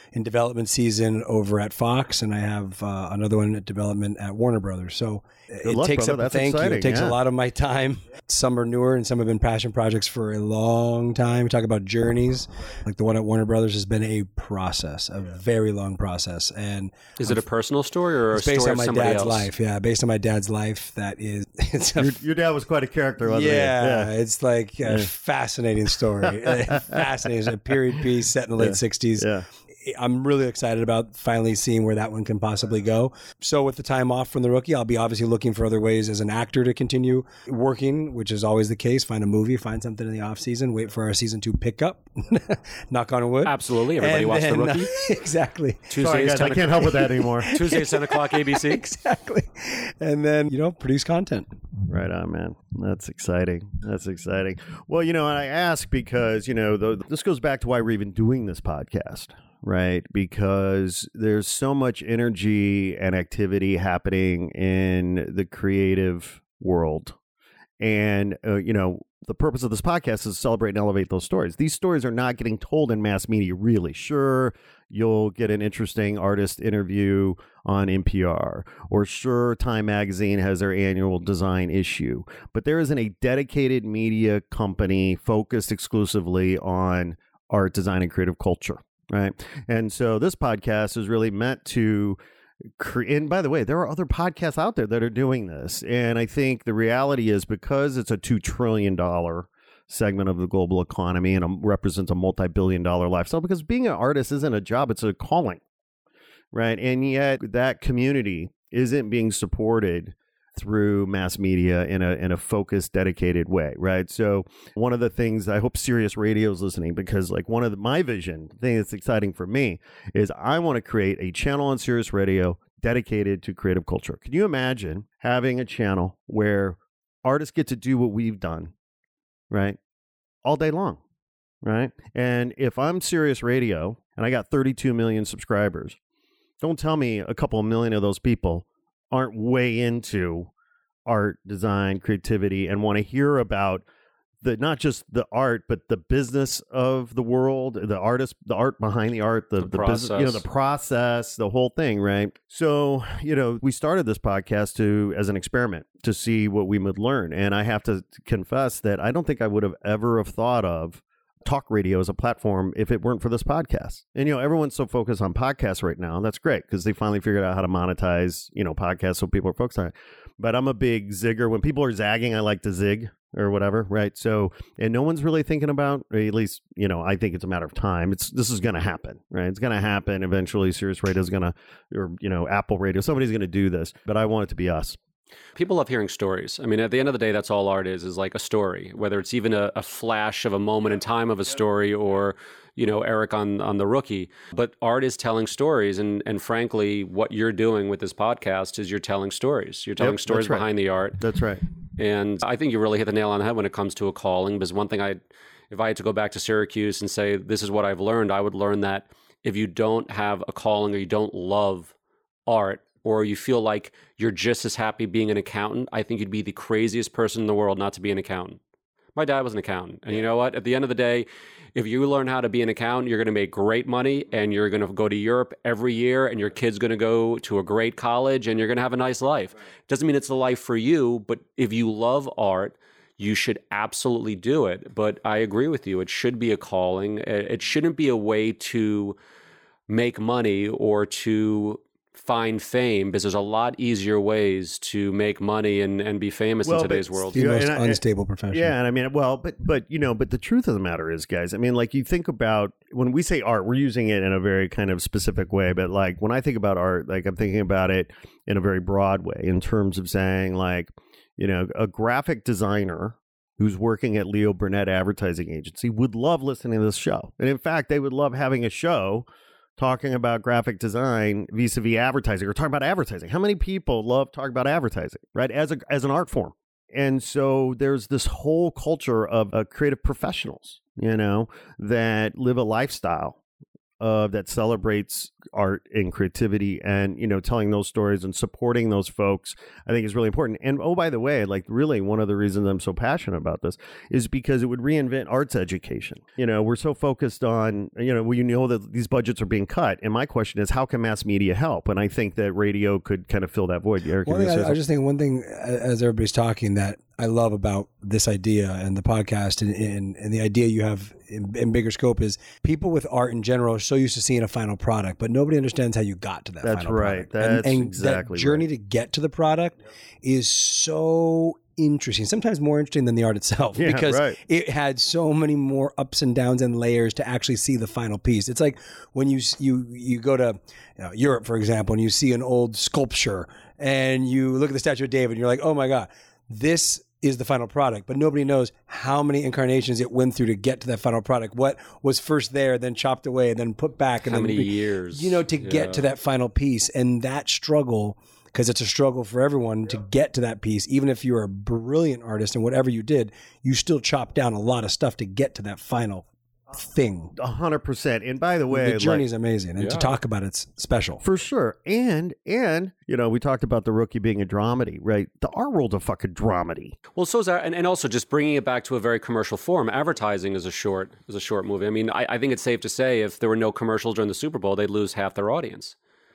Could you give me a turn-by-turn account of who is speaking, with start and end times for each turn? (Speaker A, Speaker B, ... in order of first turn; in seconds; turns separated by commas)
Speaker A: 0.1-17.4, Speaker B: 5.6-7.2, Speaker C: 17.2-19.5, Speaker A: 18.3-22.2, Speaker B: 22.0-24.1, Speaker A: 23.3-29.3, Speaker B: 26.2-27.1, Speaker B: 28.6-29.5, Speaker A: 29.9-45.9, Speaker C: 43.5-44.9, Speaker C: 45.9-47.0, Speaker B: 46.0-47.6, Speaker A: 46.8-51.5, Speaker C: 47.5-48.8, Speaker B: 51.9-67.2, Speaker B: 67.8-92.2, Speaker B: 92.8-105.6, Speaker B: 106.5-128.7, Speaker B: 129.5-129.8, Speaker B: 130.4-131.0, Speaker B: 131.6-136.0, Speaker B: 136.6-140.5, Speaker B: 141.1-143.8, Speaker B: 144.4-185.0, Speaker C: 149.6-150.4, Speaker C: 185.6-201.2, Speaker B: 200.0-200.7, Speaker B: 201.2-201.6, Speaker C: 202.0-205.2, Speaker C: 205.7-211.9, Speaker C: 212.5-218.6, Speaker C: 219.2-239.2, Speaker C: 239.9-247.3, Speaker B: 246.6-283.4, Speaker A: 247.3-248.8, Speaker B: 284.0-304.8, Speaker A: 304.2-357.3, Speaker B: 316.6-318.7, Speaker B: 323.8-324.4, Speaker C: 344.2-346.0, Speaker B: 357.4-359.2, Speaker A: 358.7-361.2, Speaker C: 359.8-360.2, Speaker B: 361.2-367.0, Speaker C: 367.2-375.9